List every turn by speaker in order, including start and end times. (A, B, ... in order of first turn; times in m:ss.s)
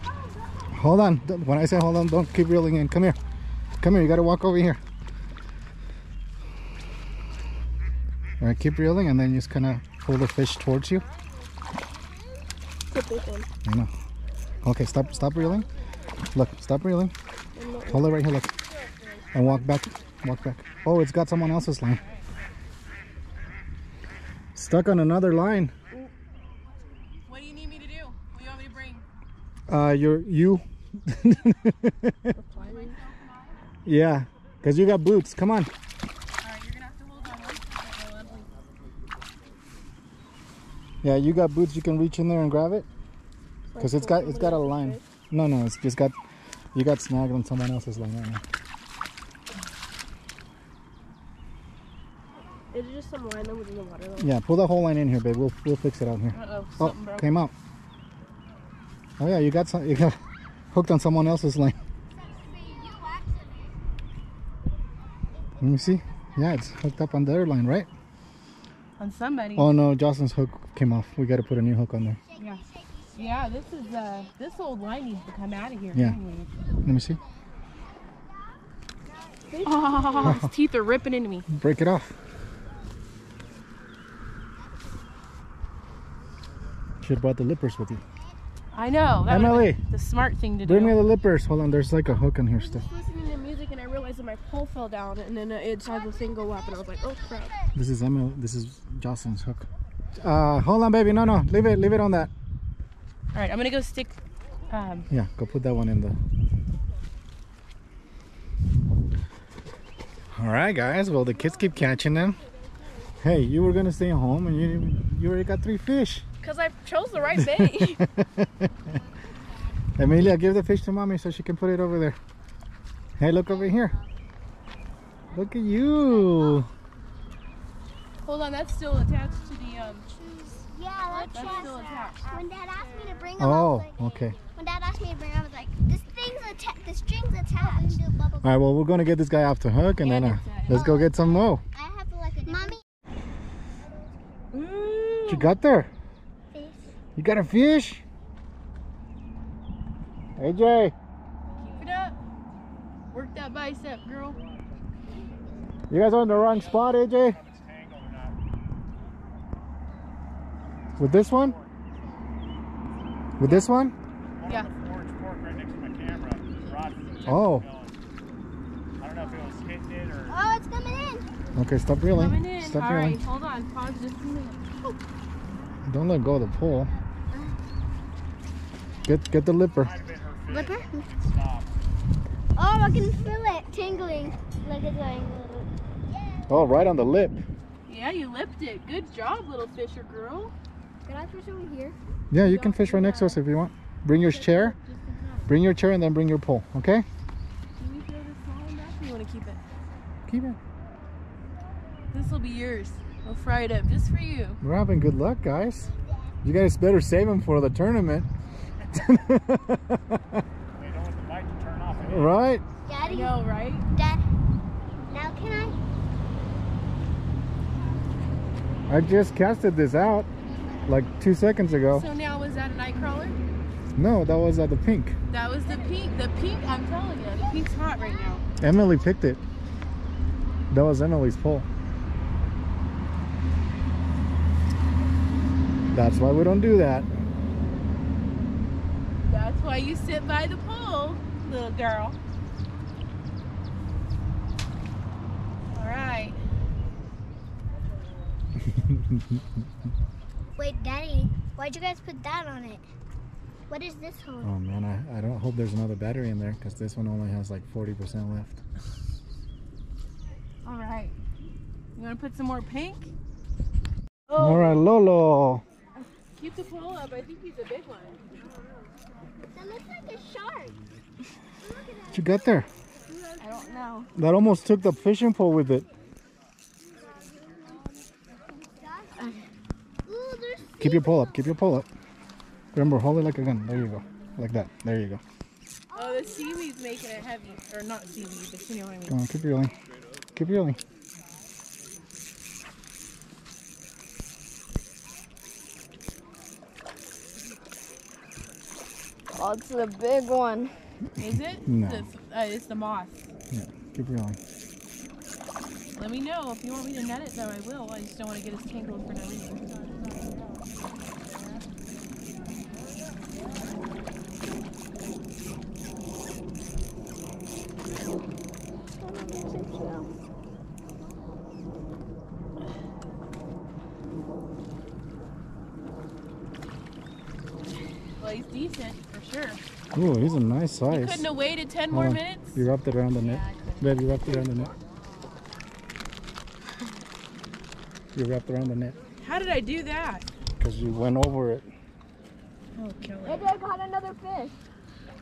0:00.7-0:03.2 A
0:03.8-0:04.8 A
0:08.4-0:11.0 A
0:12.9-0:13.5 B
0:13.6-0:13.9 A
0:14.6-0:15.7 A
0:16.3-0:17.1 A
0:17.6-0:18.0 B
0:17.8-0:18.5 A
0:19.3-0:22.0 A
0:24.5-0:25.7 A
0:27.3-0:29.0 C
0:29.7-0:32.3 A
0:32.3-0:33.0 B
0:32.6-0:33.0 C
0:33.8-0:35.7 A
0:36.4-0:38.5 C
0:41.0-0:42.9 A
0:43.7-0:45.0 B
0:43.8-0:46.1 A
0:46.7-0:48.4 A
0:52.7-0:54.3 B
0:54.2-0:57.5 A
0:56.3-0:57.3 C
0:59.2-1:00.2 A
1:00.7-1:01.8 A
1:05.6-1:07.9 A
1:09.0-1:09.7 C
1:09.6-1:12.2 A
1:12.4-1:12.6 C
1:13.1-1:16.5 C
1:16.8-1:17.2 A
1:19.5-1:20.4 B
1:19.6-1:21.5 C
1:20.2-1:20.5 A
1:21.5-1:22.1 A
1:27.0-1:28.0 A
1:28.7-1:31.0 C
1:29.3-1:29.8 A
1:30.6-1:32.8 A
1:32.6-1:37.5 B
1:37.7-1:42.3 A
1:43.3-1:44.2 C
1:44.7-1:45.1 C
1:45.1-1:46.2 A
1:50.3-1:52.4 A
1:53.2-1:56.2 A
1:56.4-1:58.0 C
1:56.4-1:58.0 B
1:57.4-1:58.9 A
2:00.0-2:02.2 A
2:03.2-2:03.9 A
2:05.3-2:06.7 A
2:08.2-2:10.1 C
2:10.2-2:18.5 D
2:11.1-2:12.3 B
2:11.3-2:12.2 C
2:13.4-2:14.4 A
2:18.4-2:21.6 A
2:20.0-2:20.9 C
2:20.7-2:22.8 D
2:24.5-2:25.5 C
2:25.3-2:25.9 A
2:26.5-2:26.9 D
2:27.2-2:28.0 A
2:30.4-2:30.9 A
2:31.7-2:32.2 C
2:33.1-2:34.4 C
2:35.9-2:37.4 A
2:36.3-2:38.4 E
2:41.0-2:41.7 E
2:41.0-2:41.6 A
2:43.4-2:43.9 A
2:44.4-2:48.0 E
2:47.2-2:47.7 A
2:49.0-2:50.4 E
2:50.3-2:51.3 D
2:51.5-2:53.2 A
2:52.1-2:54.7 C
2:55.8-2:56.9 A
2:59.0-2:59.9 A
2:59.8-3:01.7 E
3:00.5-3:01.0 D
3:02.6-3:05.7 D
3:06.5-3:07.4 A
3:07.9-3:10.5 C
3:11.2-3:11.9 B
3:12.3-3:14.7 A
3:12.4-3:13.4 C
3:14.1-3:15.5 C
3:15.5-3:17.1 A
3:17.8-3:19.6 C
3:20.2-3:20.6 A
3:22.1-3:24.6 C
3:24.6-3:25.9 A
3:26.4-3:28.3 A
3:28.9-3:30.4 A
3:30.7-3:32.4 E
3:32.0-3:32.6 A
3:32.8-3:34.2 D
3:33.0-3:33.8 C
3:35.1-3:35.8 D
3:38.9-3:40.3 A
3:40.8-3:42.1 A
3:41.9-3:43.4 C
3:44.0-3:45.2 A
3:45.3-3:48.4 C
3:48.6-3:49.4 A
3:50.7-3:51.7 A
3:55.9-3:57.1 A
3:59.3-4:02.2 C
4:05.7-4:06.4 C
4:08.8-4:09.4 A
4:10.6-4:12.8 D
4:13.7-4:14.5 D
4:14.4-4:18.6 A
4:20.6-4:21.1 C
4:22.0-4:23.1 C
4:24.3-4:24.6 C
4:24.4-4:25.6 A
4:26.4-4:28.2 C
4:29.5-4:30.8 D
4:32.1-4:32.7 A
4:33.3-4:34.0 D
4:33.4-4:34.1 B
4:34.2-4:35.8 A
4:38.8-4:39.4 D
4:40.1-4:41.3 D
4:40.8-4:41.9 A
4:42.7-4:45.2 A
4:45.9-4:49.2 C
4:46.0-4:46.3 D
4:49.1-4:49.7 A
4:50.3-4:50.8 A
4:59.4-5:00.7 B
5:01.2-5:03.3 C
5:01.6-5:02.0 A
5:03.5-5:04.4 A
5:05.9-5:10.6 C
5:19.0-5:20.1 B
5:28.2-5:29.6 C
5:29.9-5:31.3 A
5:30.9-5:32.6 C
5:31.9-5:34.7 A
5:33.2-5:34.7 B
5:38.1-5:39.0 A
5:39.2-5:40.2 C
5:40.6-5:41.7 A
5:42.8-5:43.5 C
5:43.2-5:44.5 B